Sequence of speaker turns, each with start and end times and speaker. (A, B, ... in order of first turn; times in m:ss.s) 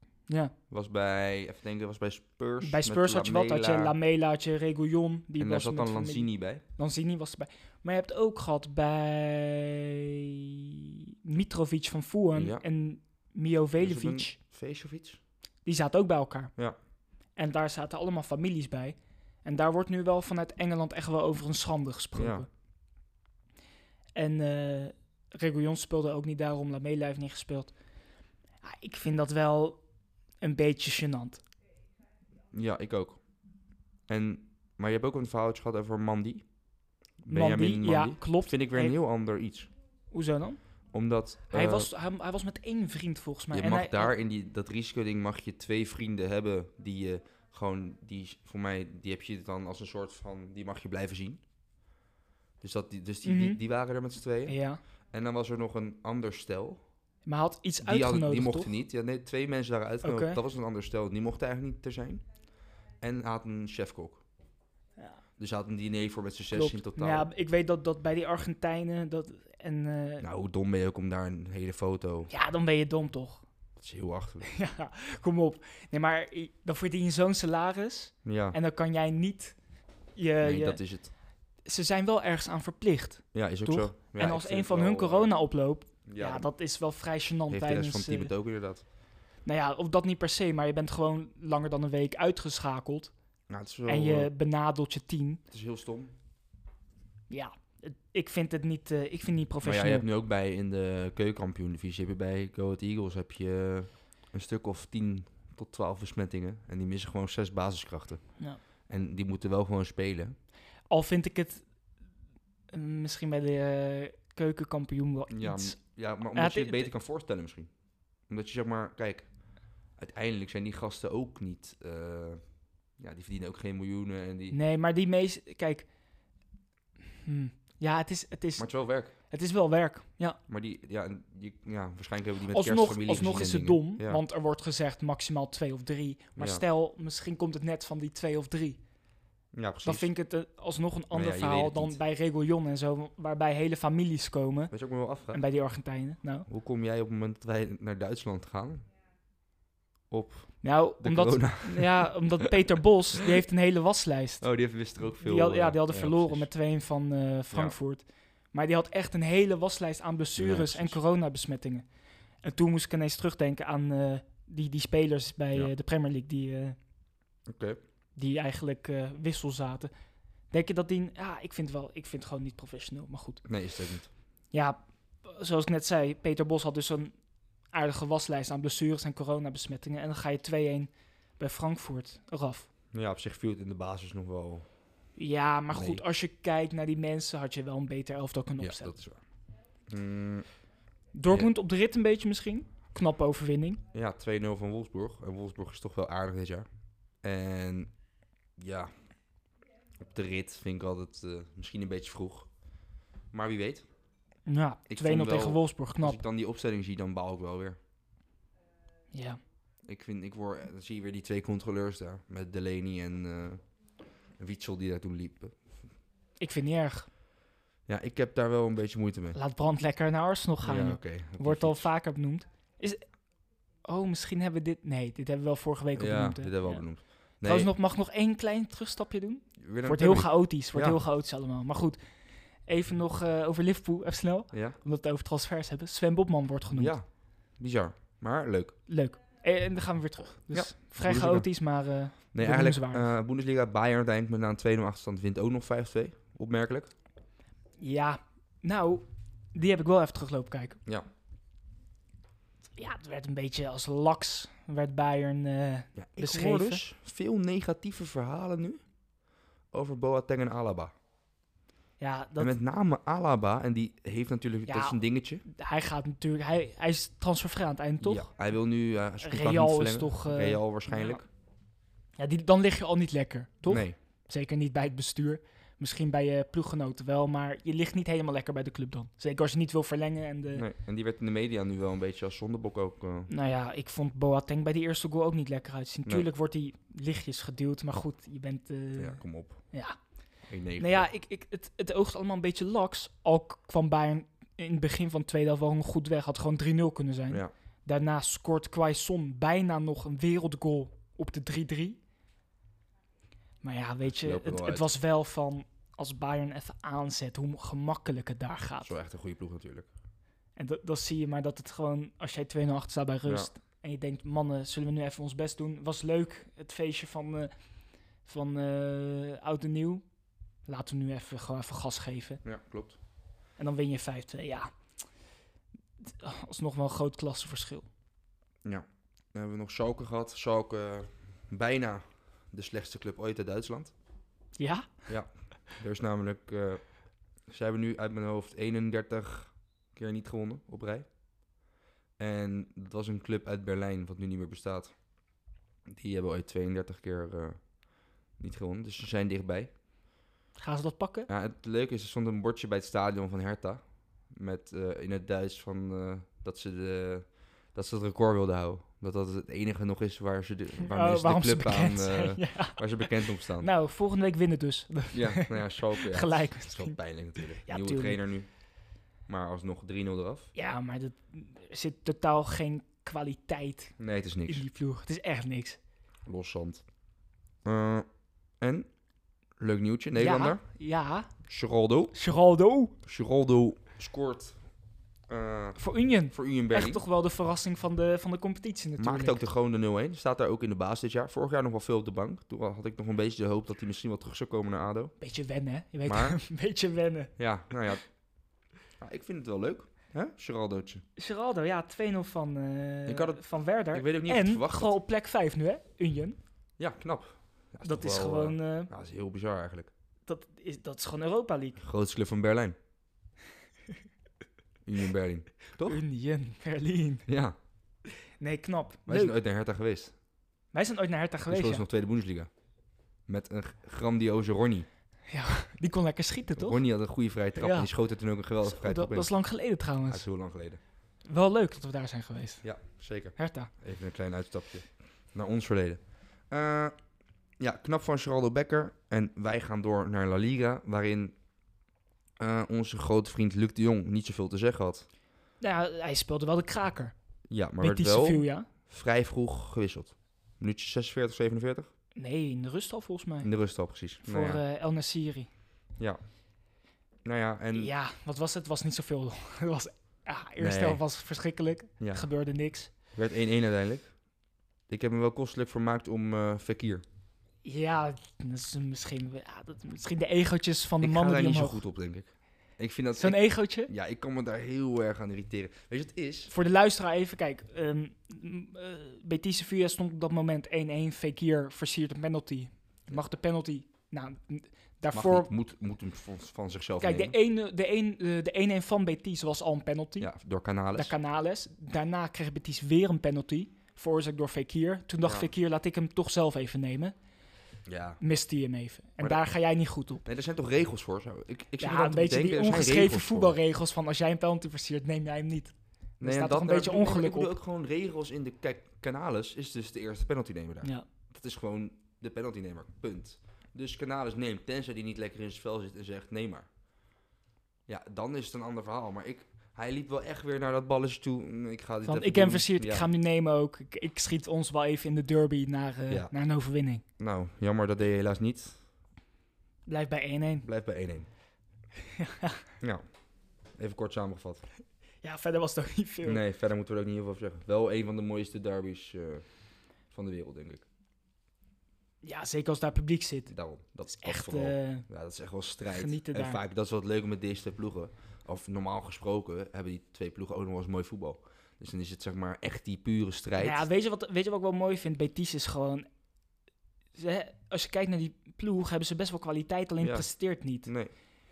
0:00.3-0:00.5 A
0:00.7-0:04.0 B
0:02.6-0:14.4 A
0:05.4-0:06.6 B
0:12.4-0:12.6 B
0:13.8-0:15.2 B
0:15.6-0:16.5 A
0:17.4-0:22.5 A
0:22.2-0:22.5 B
0:24.2-0:27.7 A
0:28.6-0:29.8 A
0:30.4-0:31.4 A
0:32.5-0:33.2 B
0:34.1-0:36.4 B
0:37.2-0:39.7 B
0:37.3-0:39.0 A
0:40.1-0:40.6 A
0:40.9-0:41.9 B
0:41.5-0:44.1 A
0:43.5-0:51.4 B
0:52.6-0:54.6 B
0:53.2-0:53.6 A
0:54.5-0:54.8 A
0:55.1-0:56.8 B
0:57.3-0:58.7 A
0:57.8-1:02.2 B
1:00.0-1:00.4 A
1:03.0-1:04.2 B
1:05.4-1:07.3 B
1:06.5-1:10.3 A
1:10.2-1:12.3 B
1:12.3-1:13.4 A
1:13.8-1:14.5 B
1:14.4-1:19.6 A
1:18.2-1:18.6 B
1:20.2-1:20.8 A
1:20.4-1:21.1 B
1:21.6-1:28.3 A
1:23.3-1:25.3 B
1:26.1-1:26.5 B
1:27.5-1:28.8 B
1:29.4-1:33.1 A
1:33.5-1:34.3 B
1:33.9-1:35.4 A
1:35.5-1:36.1 B
1:37.3-1:40.1 A
1:39.6-1:48.3 B
1:48.9-1:50.4 B
1:50.9-1:51.6 A
1:52.7-1:55.8 A
1:55.3-1:57.7 B
1:56.4-1:56.9 A
1:58.3-1:59.3 B
2:00.0-2:02.4 B
2:03.0-2:04.6 B
2:04.5-2:05.9 A
2:07.2-2:10.4 A
2:08.6-2:09.1 B
2:10.5-2:14.2 B
2:12.5-2:18.8 A
2:16.4-2:16.6 B
2:19.5-2:20.1 B
2:19.8-2:24.7 A
2:21.1-2:22.0 B
2:24.7-2:25.4 B
2:25.3-2:26.5 A
2:26.5-2:28.8 B
2:30.1-2:32.5 B
2:30.6-2:34.5 A
2:34.4-2:36.5 B
2:35.2-2:41.9 A
2:40.4-2:41.0 B
2:42.4-2:46.8 A
2:47.5-2:47.8 B
2:48.2-2:49.9 A
2:50.5-2:53.4 A
2:53.4-2:54.1 B
2:54.5-2:57.2 A
2:57.7-3:02.7 A
3:02.9-3:04.7 B
3:05.2-3:09.0 A
3:05.7-3:06.0 B
3:08.6-3:09.2 B
3:09.9-3:10.5 B
3:11.1-3:13.8 A
3:13.9-3:16.7 B
3:17.2-3:17.9 B
3:18.6-3:18.9 B
3:20.0-3:22.5 B
3:23.3-3:23.9 B
3:24.5-3:26.2 A
3:24.9-3:27.8 B
3:29.1-3:29.4 A
3:29.8-3:33.6 B
3:34.4-3:35.6 B
3:36.4-3:37.1 A
3:37.9-3:39.4 B
3:39.3-3:43.0 A
3:40.6-3:41.9 B
3:43.8-3:46.8 A
3:46.0-3:47.7 B
3:47.4-3:52.0 A
3:49.6-3:51.0 B
3:52.7-3:57.0 A
3:54.5-3:54.8 B
3:56.7-3:57.0 B
3:57.6-3:58.8 B
3:58.9-4:03.1 A
4:00.5-4:01.5 B
4:02.3-4:06.9 B
4:07.8-4:10.8 A
4:12.8-4:16.8 A
4:16.0-4:18.8 B
4:19.7-4:20.9 B
4:22.0-4:22.5 A
4:22.4-4:25.4 B
4:24.7-4:28.3 A
4:28.0-4:31.3 B
4:29.2-4:31.2 A
4:32.2-4:40.6 A
4:33.7-4:34.0 B
4:40.6-4:43.3 B
4:43.3-4:50.0 A
4:49.0-4:49.6 B
4:50.5-4:51.1 B
4:50.8-5:02.0 A
5:03.6-5:08.9 A
5:04.2-5:04.9 B
5:08.8-5:09.9 B
5:10.6-5:17.5 A
5:13.3-5:13.5 B
5:18.2-5:20.0 A
5:20.7-5:22.4 A
5:22.4-5:23.0 B
5:23.6-5:24.7 A
5:26.0-5:27.9 A
5:28.6-5:33.9 B
5:34.6-5:35.0 A
5:35.1-5:36.8 B
5:37.5-5:41.1 B
5:42.2-5:45.0 B
5:45.9-5:47.6 B
5:48.4-5:49.7 B
5:50.6-5:51.3 A
5:51.3-6:03.7 B
6:00.9-6:08.2 A
6:05.1-6:08.5 B
6:09.3-6:10.5 B
6:10.6-6:14.0 A
6:14.0-6:14.6 B
6:14.5-6:15.8 A
6:16.3-6:16.8 B
6:17.6-6:18.1 B
6:18.6-6:18.9 B
6:19.6-6:20.6 B
6:20.2-6:21.4 A
6:21.5-6:22.1 B
6:22.1-6:23.0 A
6:23.0-6:24.6 B
6:25.3-6:25.8 B
6:25.8-6:29.4 A
6:26.3-6:27.0 B
6:29.0-6:35.1 B
6:35.2-6:37.3 A
6:36.1-6:36.4 B
6:37.4-6:38.0 B
6:39.0-6:41.0 B
6:41.2-6:46.4 A
6:43.1-6:45.0 B
6:46.8-6:49.9 B
6:47.8-6:48.9 A
6:50.3-6:51.8 A
6:51.8-6:52.8 B
6:54.8-6:56.0 B
6:55.8-6:57.3 A
6:57.3-6:57.6 B
6:58.4-6:59.4 A
6:59.1-7:00.1 B
7:00.7-7:01.8 A
7:01.5-7:02.5 B
7:03.3-7:04.9 B
7:05.3-7:06.8 A
7:06.6-7:09.3 B
7:07.6-7:07.9 A
7:08.6-7:10.2 A
7:10.1-7:10.8 B
7:11.2-7:12.6 A
7:12.6-7:16.9 B
7:13.4-7:13.7 A
7:17.6-7:21.4 B
7:22.4-7:25.1 B
7:25.6-7:27.1 A
7:27.5-7:31.9 B
7:27.8-7:28.7 A
7:32.2-7:33.5 A
7:33.4-7:34.6 B
7:34.2-7:35.5 A
7:37.2-7:37.9 B
7:37.8-7:42.9 A
7:40.6-7:41.0 B
7:42.0-7:42.3 B
7:43.1-7:44.1 B
7:44.9-7:47.0 B
7:47.6-7:51.8 A
7:51.0-7:56.5 B
7:53.2-7:53.9 A
7:56.5-8:05.5 A
8:05.1-8:07.4 B
8:07.0-8:10.3 A
8:10.2-8:11.1 B
8:11.0-8:17.2 A
8:17.9-8:18.2 B
8:18.2-8:20.3 A
8:20.2-8:23.6 B
8:21.8-8:27.5 A
8:26.2-8:36.7 B
8:37.9-8:43.1 B
8:42.0-8:47.0 A
8:47.2-8:48.8 B
8:49.9-8:50.7 A
8:50.6-8:51.3 B
8:52.0-8:52.6 A
8:53.8-8:54.6 B
8:55.2-8:56.4 A
8:56.2-8:59.5 B
9:00.1-9:00.8 B
9:02.2-9:03.5 A
9:03.5-9:13.8 B
9:04.1-9:05.1 A
9:05.9-9:06.6 A
9:13.6-9:16.1 A
9:17.2-9:20.9 A
9:20.0-9:20.3 B
9:20.9-9:21.1 B